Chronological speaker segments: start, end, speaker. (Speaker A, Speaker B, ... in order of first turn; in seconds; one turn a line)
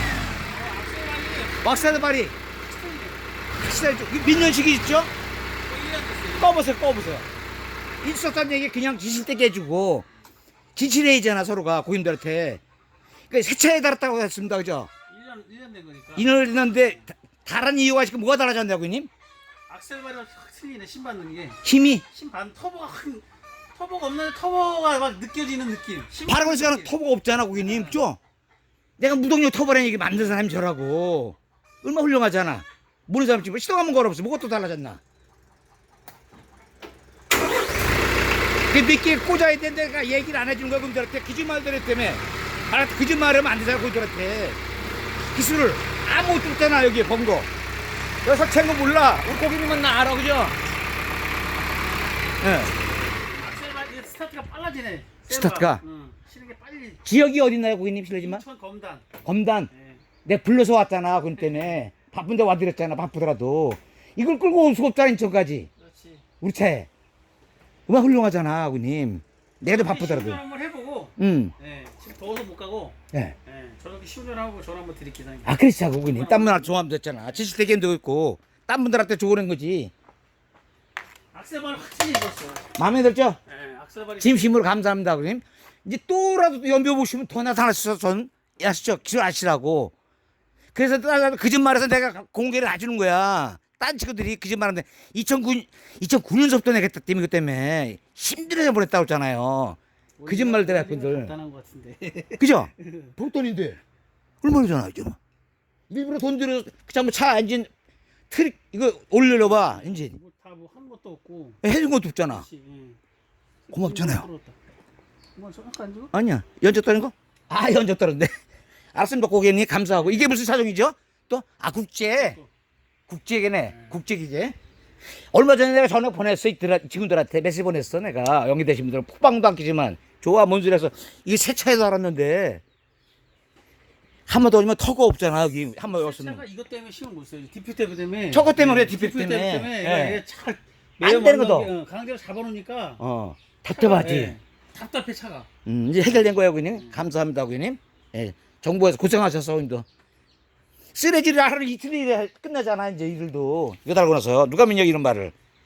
Speaker A: 0.5-3.3
Speaker B: 1.6-2.4
Speaker B: 3.6-5.1
Speaker A: 5.7-6.6
Speaker B: 6.4-7.3
Speaker B: 8.0-10.1
Speaker B: 10.8-12.6
Speaker B: 13.3-14.9
Speaker A: 15.1-17.1
Speaker B: 16.2-19.1
Speaker A: 19.7-26.9
Speaker B: 21.6-22.0
Speaker B: 26.3-28.2
Speaker A: 27.5-28.0
Speaker B: 29.0-35.0
Speaker B: 38.7-44.6
Speaker B: 45.3-47.5
Speaker B: 48.2-50.6
Speaker B: 52.4-52.7
Speaker A: 53.3-57.0
Speaker B: 55.3-55.8
Speaker B: 57.0-58.4
Speaker A: 58.2-59.1
Speaker B: 59.2-59.7
Speaker A: 59.7-60.0
Speaker B: 60.2-65.7
Speaker A: 61.3-61.8
Speaker A: 65.8-66.2
Speaker B: 66.4-66.9
Speaker B: 67.9-70.4
Speaker A: 69.7-75.5
Speaker B: 71.2-71.5
Speaker B: 75.5-79.9
Speaker A: 76.1-76.7
Speaker A: 81.3-82.7
Speaker B: 82.8-83.4
Speaker A: 83.5-84.6
Speaker B: 84.2-89.9
Speaker B: 90.7-101.3
Speaker A: 100.2-103.1
Speaker B: 102.4-103.8
Speaker B: 104.4-105.2
Speaker B: 105.9-107.7
Speaker B: 108.3-110.2
Speaker A: 109.2-111.6
Speaker B: 111.6-112.5
Speaker A: 112.3-113.0
Speaker A: 113.7-114.6
Speaker B: 113.7-114.3
Speaker A: 115.4-116.1
Speaker B: 116.1-118.3
Speaker B: 118.9-122.4
Speaker A: 119.9-120.3
Speaker A: 122.1-122.5
Speaker B: 123.1-124.5
Speaker A: 123.7-124.0
Speaker B: 125.3-132.6
Speaker B: 134.3-136.4
Speaker A: 135.8-143.0
Speaker B: 138.3-140.2
Speaker B: 141.0-141.7
Speaker B: 143.0-144.3
Speaker A: 143.7-145.5
Speaker B: 145.7-149.8
Speaker A: 146.7-147.0
Speaker B: 150.9-155.3